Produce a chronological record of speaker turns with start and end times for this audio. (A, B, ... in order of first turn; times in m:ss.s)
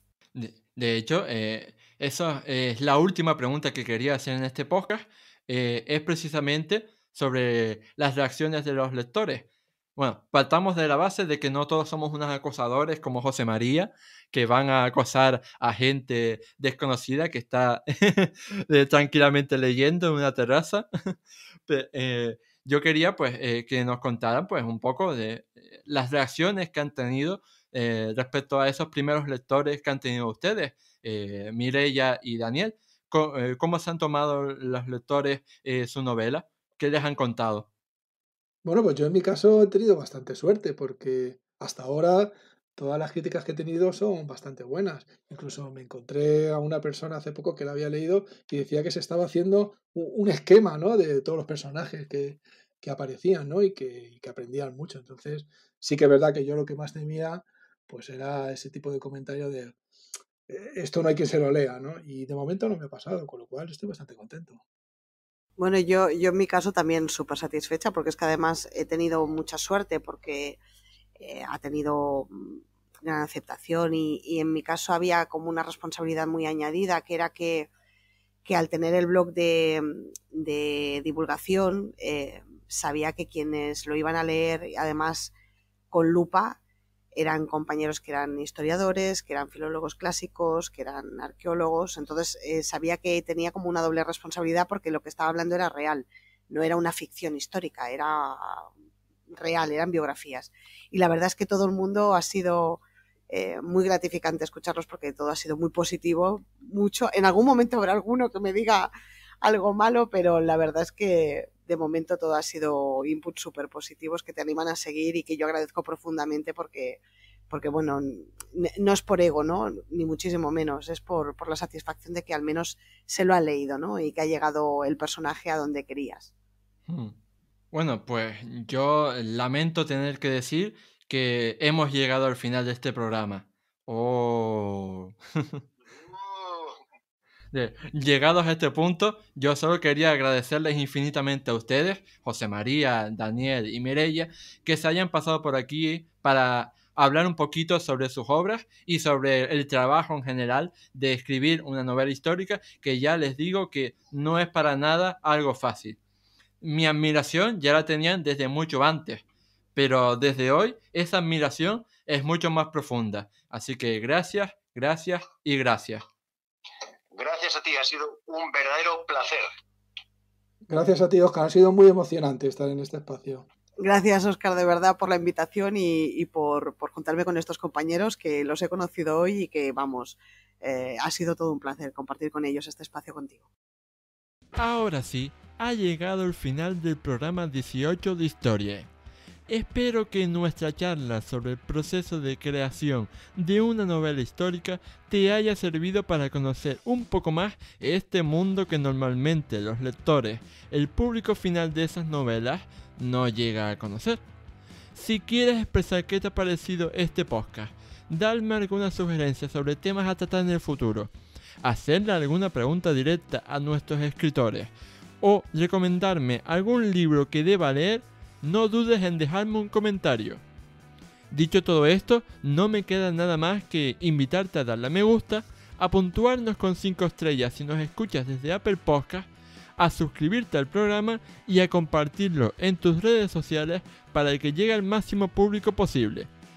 0:00.4-0:21.2 A
0:21.7-0:37.7 A
0:38.6-0:59.8 B
1:00.5-1:04.6 B
1:05.6-1:10.6 C
1:11.2-1:17.7 C
1:18.4-1:25.3 C
1:25.9-1:26.6 C
1:27.1-1:38.7 C
1:39.4-1:48.9 C
1:49.4-2:06.3 C
2:06.9-2:07.2 A
2:07.7-2:15.6 A
2:15.9-2:16.8 D
2:17.5-2:36.0 A
2:36.6-2:39.2 A
2:39.8-2:46.0 A
2:47.1-2:49.5 D
2:50.7-2:53.4 B
2:53.8-3:03.4 C
3:04.6-3:08.9 A
3:09.5-3:24.2 A
3:24.9-3:31.1 A
3:31.6-3:40.4 A
3:41.3-3:56.3 A